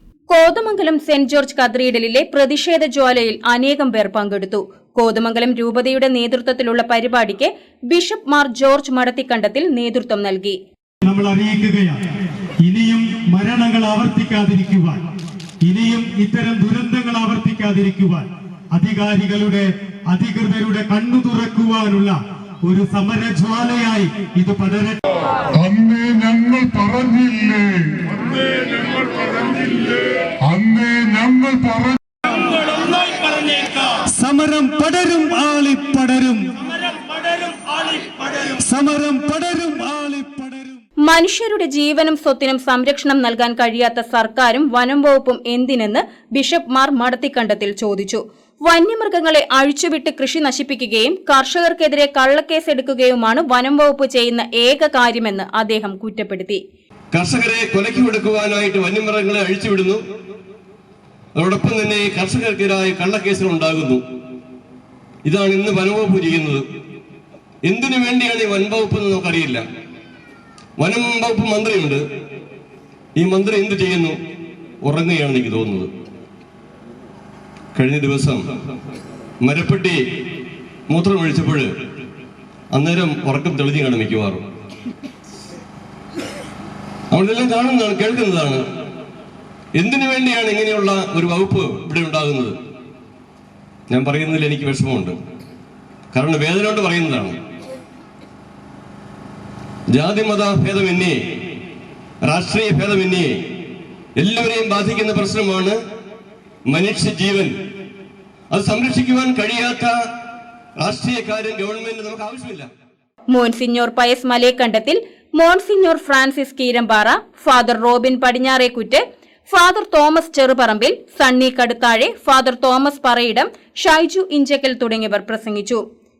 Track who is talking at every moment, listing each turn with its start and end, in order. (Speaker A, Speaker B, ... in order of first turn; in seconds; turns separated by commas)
Speaker A: 0.3-10.6, Speaker B: 11.0-12.0, Speaker B: 12.7-15.0, Speaker B: 15.6-25.0, Speaker C: 25.5-32.0, Speaker B: 32.5-40.8, Speaker A: 41.1-56.6, Speaker D: 57.1-60.0, Speaker D: 61.4-64.0, Speaker D: 65.3-66.6, Speaker D: 67.7-69.6, Speaker D: 70.8-72.0, Speaker D: 73.2-74.2, Speaker D: 74.8-75.9, Speaker D: 77.8-78.4, Speaker D: 79.4-80.0, Speaker D: 80.9-81.7, Speaker D: 82.7-84.4, Speaker D: 87.1-88.6, Speaker D: 89.8-92.6, Speaker D: 93.9-95.2, Speaker D: 96.1-97.4, Speaker D: 99.9-101.2, Speaker D: 102.2-103.3, Speaker D: 104.2-105.8, Speaker D: 106.7-107.5, Speaker D: 108.5-110.0, Speaker D: 110.8-112.7, Speaker A: 113.3-125.8